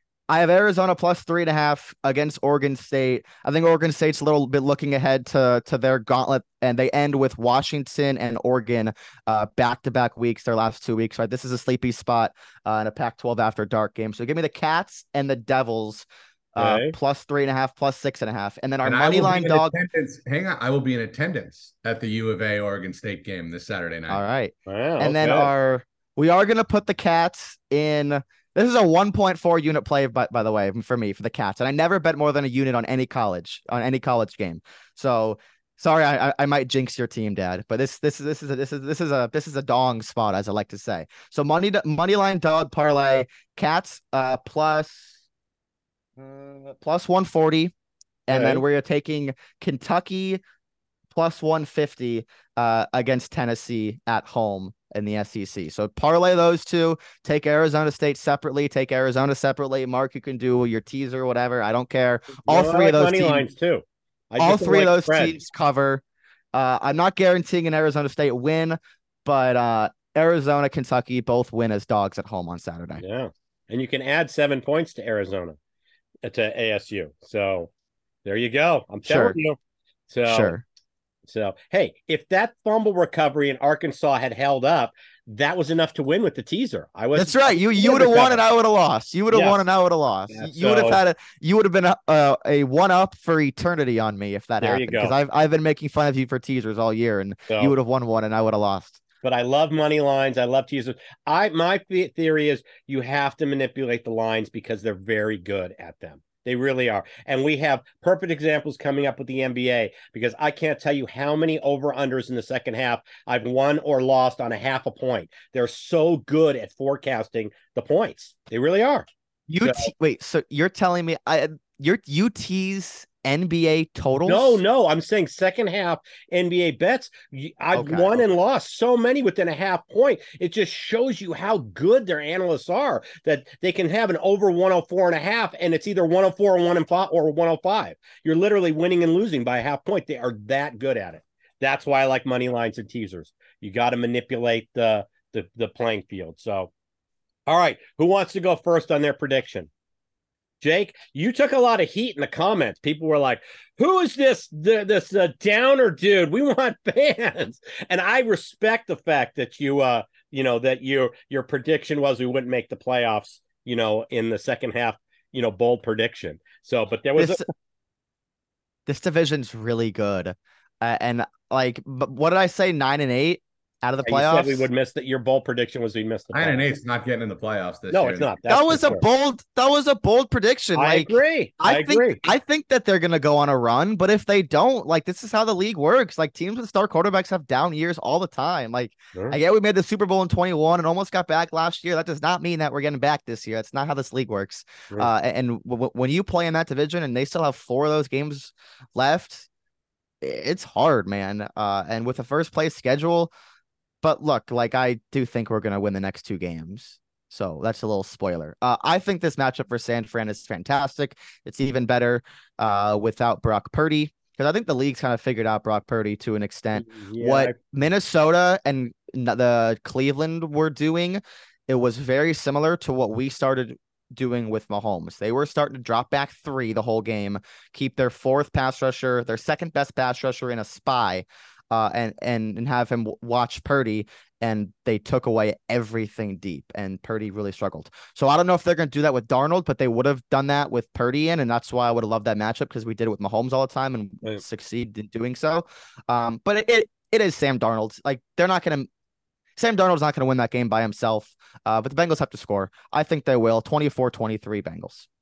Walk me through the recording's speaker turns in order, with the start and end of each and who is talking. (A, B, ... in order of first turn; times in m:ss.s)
0:00.3-0:19.7 A
0:16.6-0:17.0 B
0:18.8-0:24.2 C
0:24.1-0:45.2 A
0:24.7-0:25.5 B
0:46.2-0:47.7 A
0:48.3-0:50.4 A
0:48.3-0:48.6 B
0:51.1-1:03.5 A
1:02.4-1:05.4 B
1:04.4-1:06.0 A
1:06.5-1:13.0 A
1:13.0-1:15.6 B
1:16.2-1:17.7 B
1:18.2-1:19.6 B
1:19.1-1:19.4 A
1:20.1-1:20.6 B
1:20.3-1:20.6 A
1:21.3-1:28.4 B
1:27.2-1:39.0 A
1:29.3-1:29.6 B
1:30.3-1:31.0 B
1:34.6-1:35.2 B
1:37.5-1:37.8 B
1:39.2-1:59.1 B
1:59.5-2:04.6 A
1:59.6-1:59.9 B
2:04.3-2:26.7 B
2:07.7-2:08.2 A
2:27.5-2:29.7 B
2:30.6-2:47.4 B
2:47.2-2:47.4 A
2:48.9-2:54.7 A
2:54.0-2:56.7 B
2:56.3-2:58.4 C
2:57.9-2:59.0 B
2:58.5-3:19.5 A
3:00.8-3:02.2 B
3:20.2-3:23.3 A
3:24.0-4:08.9 A
3:36.8-3:37.6 B
4:09.6-4:15.1 A